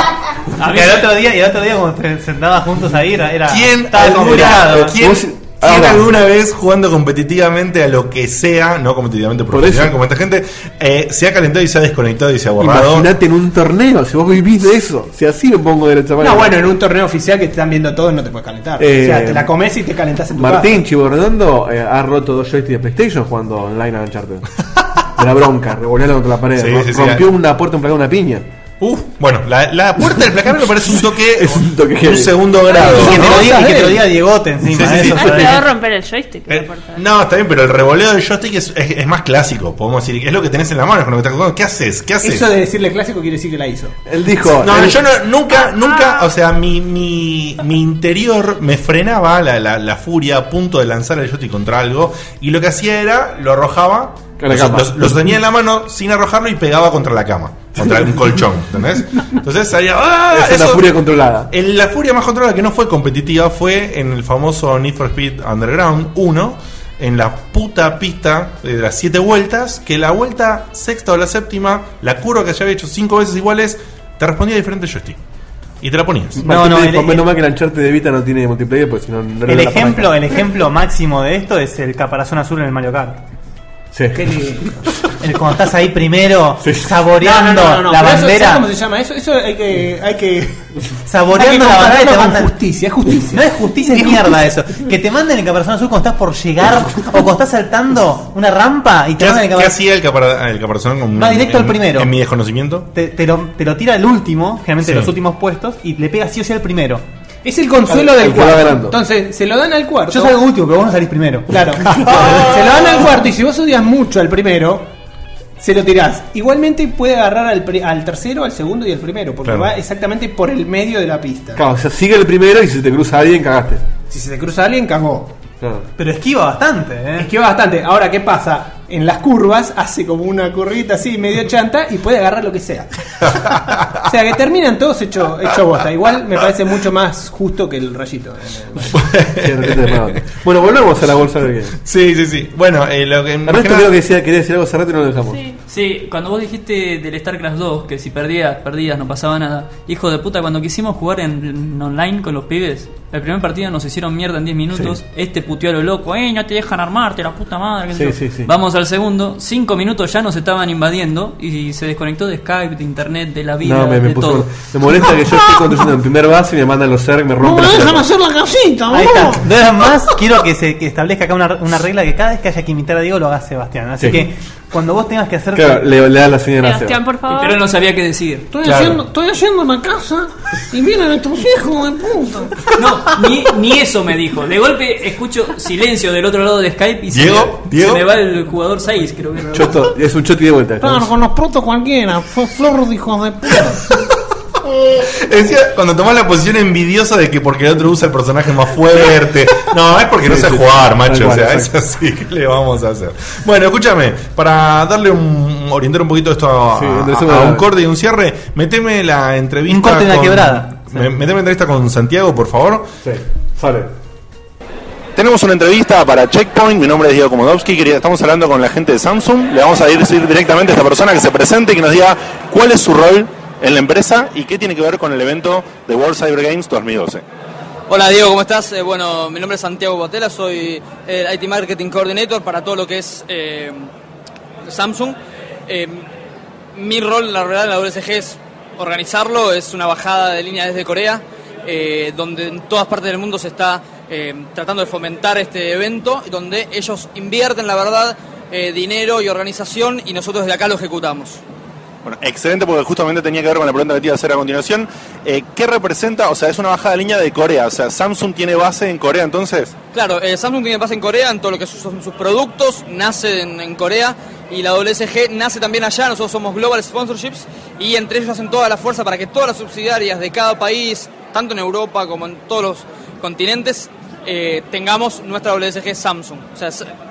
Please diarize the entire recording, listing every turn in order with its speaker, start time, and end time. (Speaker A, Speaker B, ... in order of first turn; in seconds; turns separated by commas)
Speaker A: 0.6-4.9, Speaker B: 0.7-1.0, Speaker C: 3.5-13.1, Speaker D: 4.2-6.1, Speaker D: 9.5-10.0, Speaker D: 12.6-16.6, Speaker E: 16.2-20.8, Speaker D: 18.8-19.5, Speaker D: 20.3-24.5, Speaker D: 25.1-28.5, Speaker C: 26.6-27.2, Speaker C: 28.8-33.5, Speaker D: 31.4-32.6, Speaker E: 32.7-34.2, Speaker A: 32.8-35.6, Speaker C: 34.7-35.6, Speaker F: 34.9-37.0, Speaker C: 36.5-42.5, Speaker E: 42.2-44.0, Speaker D: 44.1-45.0, Speaker C: 44.6-61.0, Speaker F: 45.5-46.3, Speaker D: 54.4-55.4, Speaker D: 60.3-61.5, Speaker C: 61.5-75.2, Speaker C: 75.8-76.4, Speaker D: 76.4-80.2, Speaker A: 76.4-77.3, Speaker A: 79.5-83.2, Speaker D: 83.9-84.4, Speaker E: 84.1-84.8, Speaker A: 85.2-88.7, Speaker D: 86.6-87.0, Speaker E: 87.2-90.7, Speaker A: 91.1-92.6, Speaker E: 91.3-94.4, Speaker A: 93.3-99.7, Speaker C: 99.2-102.9, Speaker A: 101.2-102.1, Speaker A: 102.9-107.0, Speaker C: 104.8-105.1, Speaker E: 107.4-110.4, Speaker D: 107.9-109.0, Speaker A: 110.1-111.5, Speaker E: 111.5-114.9, Speaker E: 115.6-121.6, Speaker C: 119.4-119.7, Speaker D: 121.6-123.8, Speaker E: 124.1-125.3, Speaker D: 125.6-125.8, Speaker A: 126.0-127.3, Speaker E: 127.2-132.9, Speaker C: 133.3-133.9, Speaker E: 134.1-139.0, Speaker C: 138.9-140.1, Speaker D: 139.4-141.8, Speaker C: 141.8-143.9, Speaker D: 143.4-145.4, Speaker B: 145.7-164.5, Speaker D: 157.9-158.5, Speaker D: 163.6-168.1, Speaker E: 167.4-169.4, Speaker A: 168.9-175.9, Speaker D: 174.0-174.2, Speaker D: 175.6-177.0, Speaker F: 176.6-177.6, Speaker B: 177.3-178.5, Speaker E: 178.5-182.6, Speaker C: 178.6-179.0, Speaker B: 182.8-189.9, Speaker C: 187.1-188.0, Speaker D: 189.5-191.1, Speaker E: 190.8-193.9, Speaker C: 194.6-212.9, Speaker D: 200.2-201.7, Speaker D: 206.7-207.7, Speaker A: 209.7-211.1, Speaker D: 213.0-213.9, Speaker C: 215.2-227.2, Speaker G: 227.9-233.9, Speaker G: 234.7-236.1, Speaker G: 236.7-251.4, Speaker C: 252.1-259.8, Speaker G: 259.9-276.9